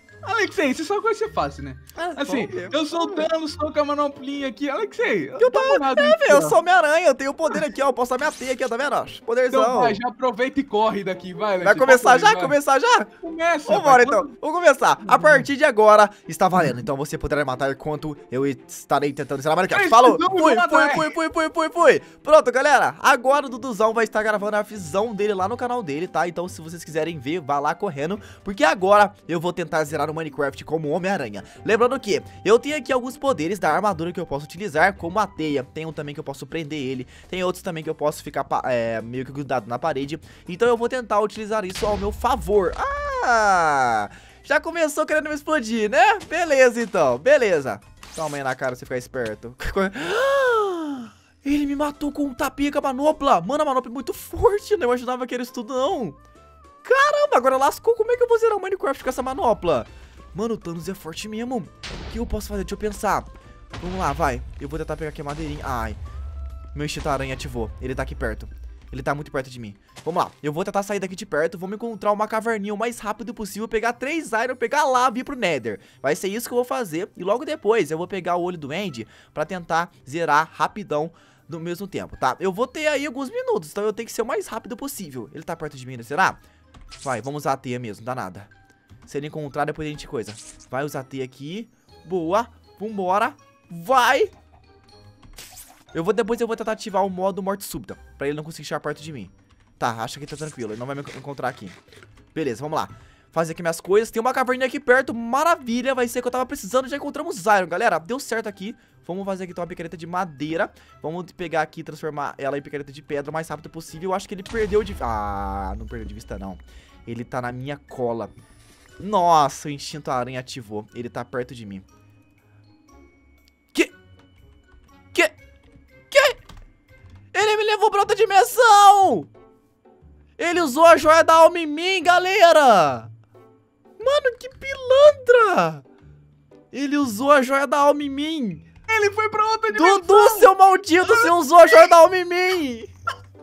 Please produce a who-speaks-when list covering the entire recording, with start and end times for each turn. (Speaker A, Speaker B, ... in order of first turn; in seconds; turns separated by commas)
Speaker A: 0.2-6.6, Speaker B: 1.9-3.3, Speaker B: 5.4-10.0, Speaker A: 9.5-12.6, Speaker B: 11.6-13.1, Speaker A: 13.2-14.3, Speaker B: 13.7-56.2, Speaker A: 15.1-15.5, Speaker A: 19.7-21.1, Speaker B: 56.8-63.3, Speaker B: 63.8-66.0, Speaker B: 66.7-86.4, Speaker B: 87.0-88.5, Speaker B: 89.1-94.3, Speaker B: 95.9-101.8, Speaker B: 102.3-118.3, Speaker B: 119.0-121.8, Speaker B: 126.1-126.4, Speaker B: 127.3-129.3, Speaker B: 130.4-133.1, Speaker B: 134.0-135.8, Speaker B: 136.7-138.7, Speaker A: 138.9-141.9, Speaker B: 139.7-142.9